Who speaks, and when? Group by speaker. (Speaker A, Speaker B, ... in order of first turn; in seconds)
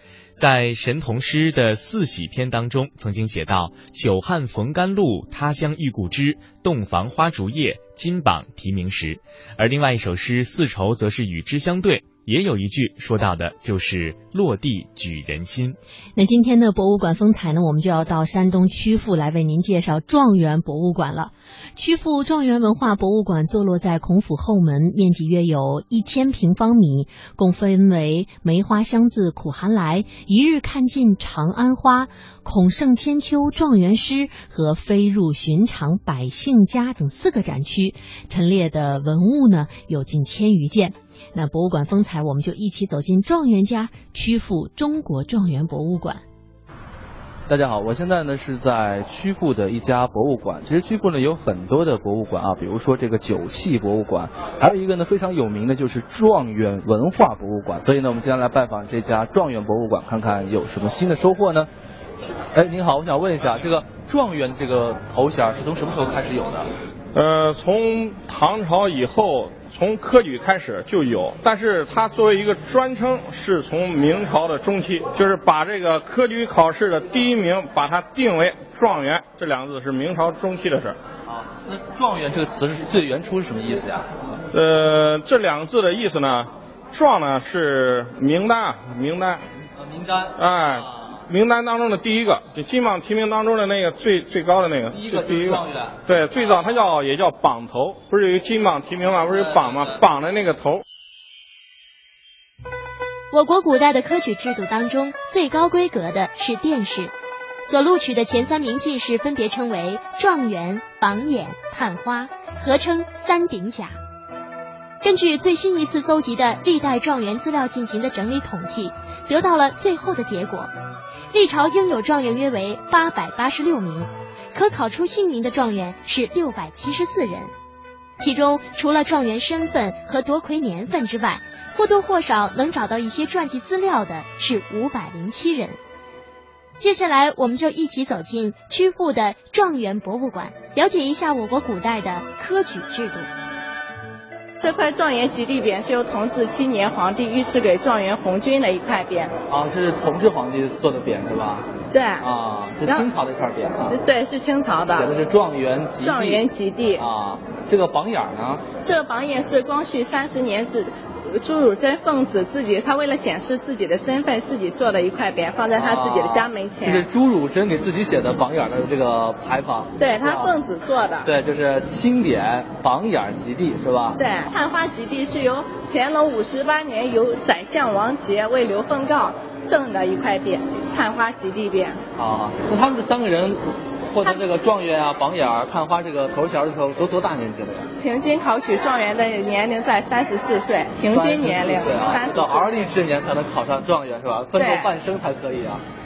Speaker A: 0.4-15.8
Speaker B: 16.1-46.2
Speaker C: 47.5-61.7, 62.5-66.7, 81.2-84.1, 89.8-91.2, 94.9-96.8, 99.3-100.0, 149.5-151.7, 152.2-154.0, 154.9-156.4, 157.0-158.7, 165.7-170.6, 171.2-174.2, 182.2-187.9, 191.0-195.8
Speaker D: 67.1-81.0, 84.5-89.4, 90.4-100.8
Speaker E: 103.3-107.1, 107.6-113.9, 115.0-120.7, 121.3-127.5, 128.2-135.8, 136.8-143.3
Speaker F: 144.6-149.3, 151.9-152.3, 152.8-153.1, 153.8-155.1, 156.0-157.0, 158.8-167.1, 170.0-171.3, 174.2-182.0, 188.0-192.7, 194.5-195.0